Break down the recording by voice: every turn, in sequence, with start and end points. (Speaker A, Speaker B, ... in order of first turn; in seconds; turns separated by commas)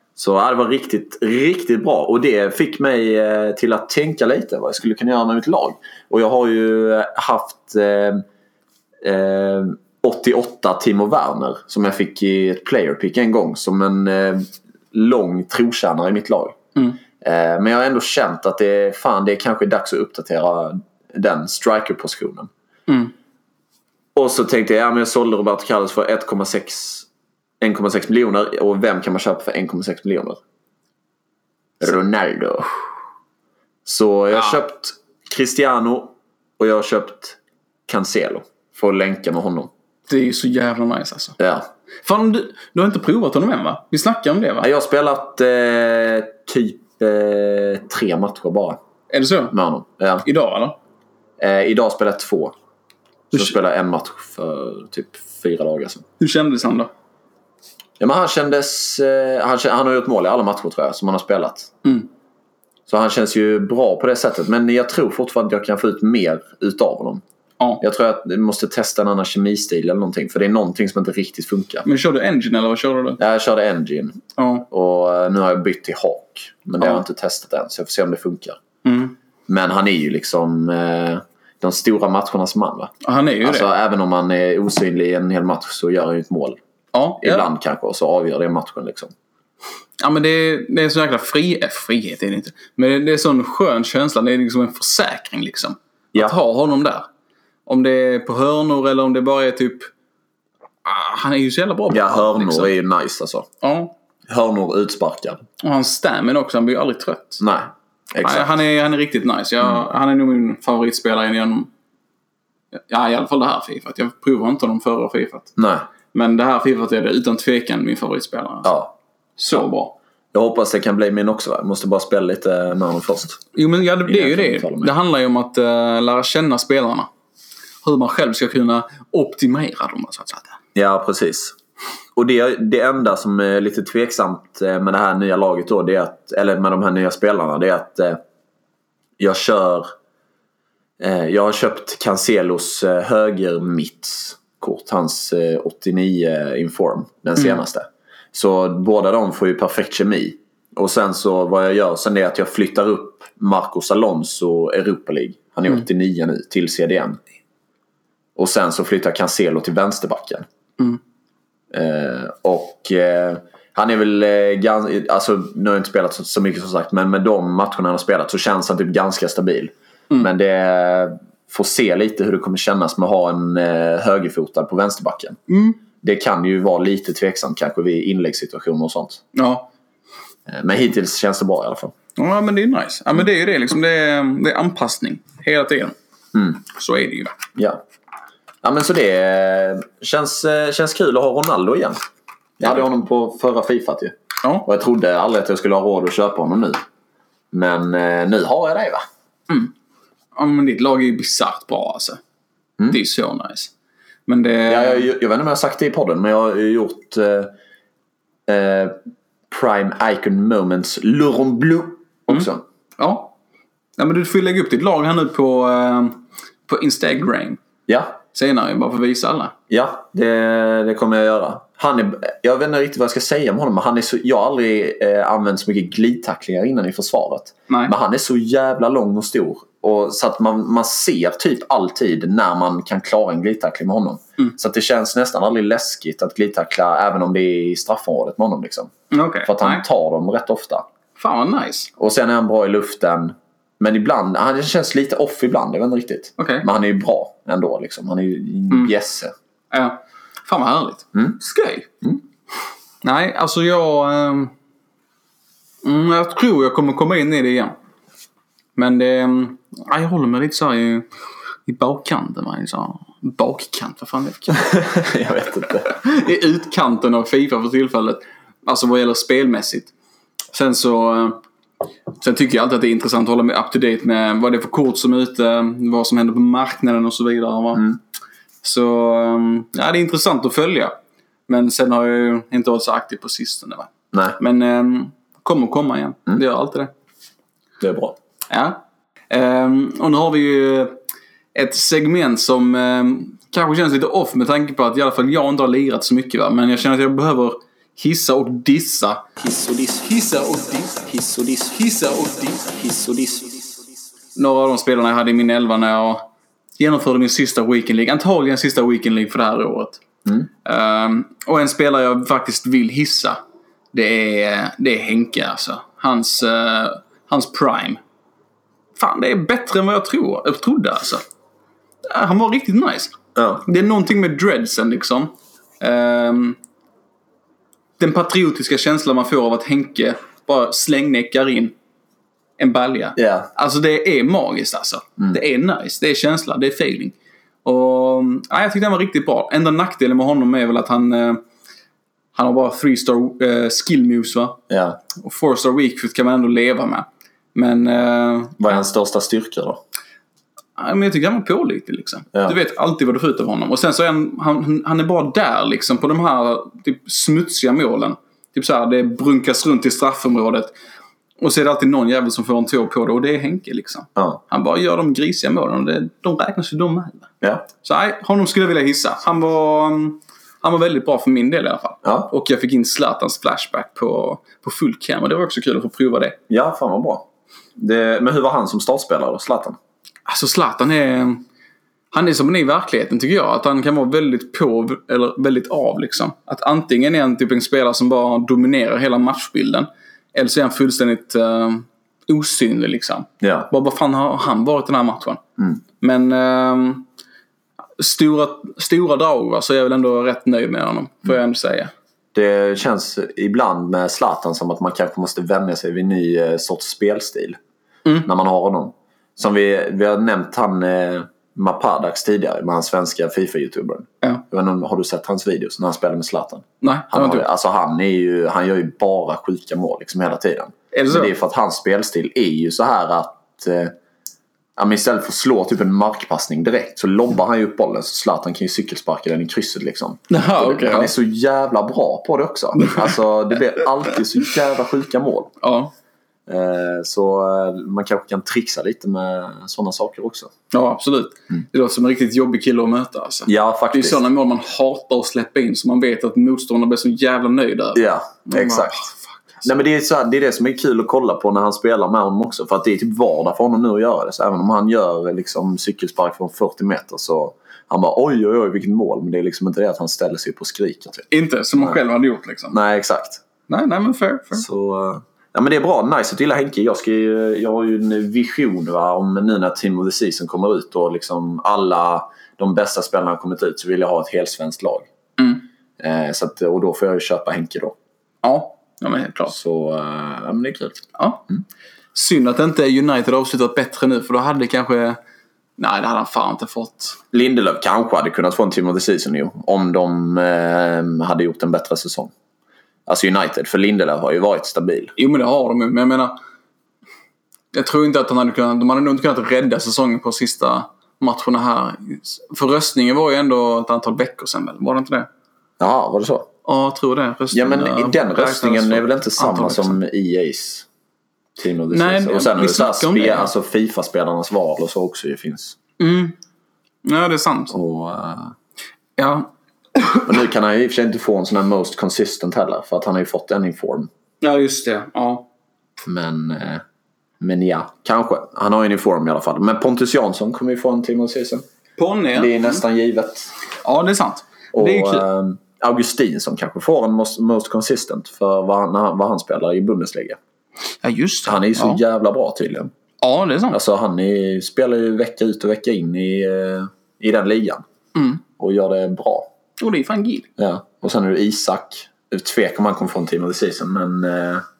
Speaker A: 0.1-8.2, Speaker A: 9.0-16.6, Speaker A: 17.2-22.5, Speaker B: 22.9-23.1, Speaker A: 24.1-27.1, Speaker A: 27.6-30.4, Speaker A: 31.8-32.7, Speaker A: 33.9-39.7, Speaker B: 40.1-41.4, Speaker A: 41.4-41.6, Speaker B: 42.0-44.7, Speaker A: 44.6-48.8, Speaker B: 49.1-49.5, Speaker A: 49.5-50.2, Speaker B: 50.2-50.8, Speaker A: 51.4-52.5, Speaker A: 53.3-56.0, Speaker B: 56.2-56.9, Speaker A: 58.0-61.7, Speaker B: 61.8-62.1, Speaker A: 62.9-67.2, Speaker A: 67.8-71.8, Speaker B: 71.8-73.2, Speaker A: 73.2-78.6, Speaker B: 74.4-74.7, Speaker B: 78.8-79.2, Speaker A: 79.5-82.9, Speaker B: 83.0-83.7, Speaker A: 83.4-86.6, Speaker B: 86.9-87.5, Speaker A: 87.2-89.1, Speaker B: 90.0-97.1, Speaker B: 97.7-99.9, Speaker B: 100.8-102.7, Speaker A: 101.9-103.5, Speaker B: 103.6-103.9, Speaker A: 104.3-105.4, Speaker B: 105.6-107.4, Speaker A: 107.4-108.5, Speaker B: 108.2-111.7, Speaker B: 112.7-115.5, Speaker A: 115.6-115.8, Speaker B: 116.1-118.8, Speaker A: 118.6-118.9, Speaker B: 119.4-119.9, Speaker A: 120.3-123.4, Speaker B: 123.5-127.1, Speaker A: 124.0-124.9, Speaker B: 127.8-130.6, Speaker A: 130.7-131.6, Speaker A: 132.1-138.2, Speaker A: 139.2-139.9, Speaker A: 141.0-157.2, Speaker A: 158.3-160.4, Speaker A: 161.7-175.4, Speaker B: 175.5-175.8, Speaker A: 176.0-179.2, Speaker B: 179.3-179.7, Speaker A: 180.5-181.9, Speaker B: 182.2-185.9, Speaker A: 186.3-186.6, Speaker B: 186.6-187.3, Speaker A: 187.6-187.8, Speaker A: 188.6-192.0, Speaker A: 192.6-196.8, Speaker A: 197.5-199.0, Speaker B: 200.3-202.2, Speaker B: 202.9-203.7, Speaker B: 204.3-205.1, Speaker A: 204.7-207.5, Speaker A: 208.5-209.0, Speaker A: 209.5-212.6, Speaker B: 212.3-213.3, Speaker B: 214.0-217.6, Speaker A: 217.9-218.1, Speaker B: 218.3-219.5, Speaker A: 219.7-238.9, Speaker B: 239.1-239.8, Speaker A: 239.4-240.8, Speaker B: 241.2-241.9, Speaker A: 242.0-249.3, Speaker B: 246.4-246.7, Speaker B: 249.7-251.9, Speaker B: 253.0-254.5, Speaker B: 255.8-257.8, Speaker B: 258.8-261.1, Speaker B: 261.6-264.6, Speaker A: 264.5-265.9, Speaker B: 265.8-269.9, Speaker B: 270.5-271.4, Speaker B: 272.2-277.9, Speaker B: 278.6-280.9, Speaker B: 281.5-286.9, Speaker A: 287.8-288.1, Speaker B: 288.5-291.0, Speaker B: 291.5-303.5, Speaker B: 304.3-310.0, Speaker B: 310.6-313.4, Speaker B: 313.9-318.0, Speaker B: 319.0-321.2, Speaker B: 322.1-326.6, Speaker A: 323.3-323.6, Speaker B: 328.0-331.7, Speaker B: 332.6-341.4, Speaker A: 333.1-333.5, Speaker B: 342.3-344.6, Speaker A: 344.7-345.0, Speaker B: 345.1-348.6, Speaker A: 348.6-349.8, Speaker B: 350.8-360.7, Speaker B: 361.4-376.4, Speaker A: 372.0-372.3, Speaker A: 376.5-377.2, Speaker A: 377.8-379.8, Speaker B: 380.2-381.4, Speaker B: 382.1-395.4, Speaker A: 393.4-393.7, Speaker B: 396.0-397.1, Speaker B: 398.0-401.9, Speaker A: 402.3-407.6, Speaker A: 408.2-423.9, Speaker B: 416.8-417.5, Speaker B: 420.9-421.3, Speaker A: 424.8-435.5, Speaker B: 430.3-431.1, Speaker B: 432.8-433.1, Speaker B: 435.6-435.9, Speaker A: 436.5-440.5, Speaker B: 440.7-449.7, Speaker A: 443.4-444.2, Speaker A: 447.9-449.1, Speaker A: 449.6-461.2, Speaker B: 461.3-462.8, Speaker A: 462.7-463.4, Speaker B: 463.7-464.6, Speaker A: 464.6-475.1, Speaker B: 475.4-475.6, Speaker A: 476.0-477.9, Speaker B: 478.4-479.6, Speaker A: 479.5-481.0, Speaker B: 481.1-481.4, Speaker B: 482.1-485.2, Speaker B: 485.8-487.2, Speaker A: 487.3-492.3, Speaker A: 493.1-495.1, Speaker B: 495.2-496.4, Speaker B: 497.7-505.3, Speaker A: 505.8-506.5, Speaker B: 506.6-510.0, Speaker A: 507.5-510.9, Speaker A: 511.6-515.8, Speaker B: 511.9-513.5, Speaker B: 516.0-516.4, Speaker B: 517.0-517.7, Speaker A: 517.7-518.5, Speaker B: 519.2-520.3, Speaker A: 520.2-524.1, Speaker B: 524.4-525.5, Speaker A: 526.0-526.8, Speaker A: 527.4-531.6, Speaker B: 532.0-532.8, Speaker A: 532.4-533.5, Speaker B: 533.8-535.2, Speaker A: 534.7-540.4, Speaker B: 541.0-542.0, Speaker A: 541.5-542.9, Speaker B: 543.2-543.8, Speaker A: 543.7-547.8, Speaker B: 548.1-548.4, Speaker A: 548.6-549.5, Speaker B: 549.8-550.5, Speaker A: 550.6-554.6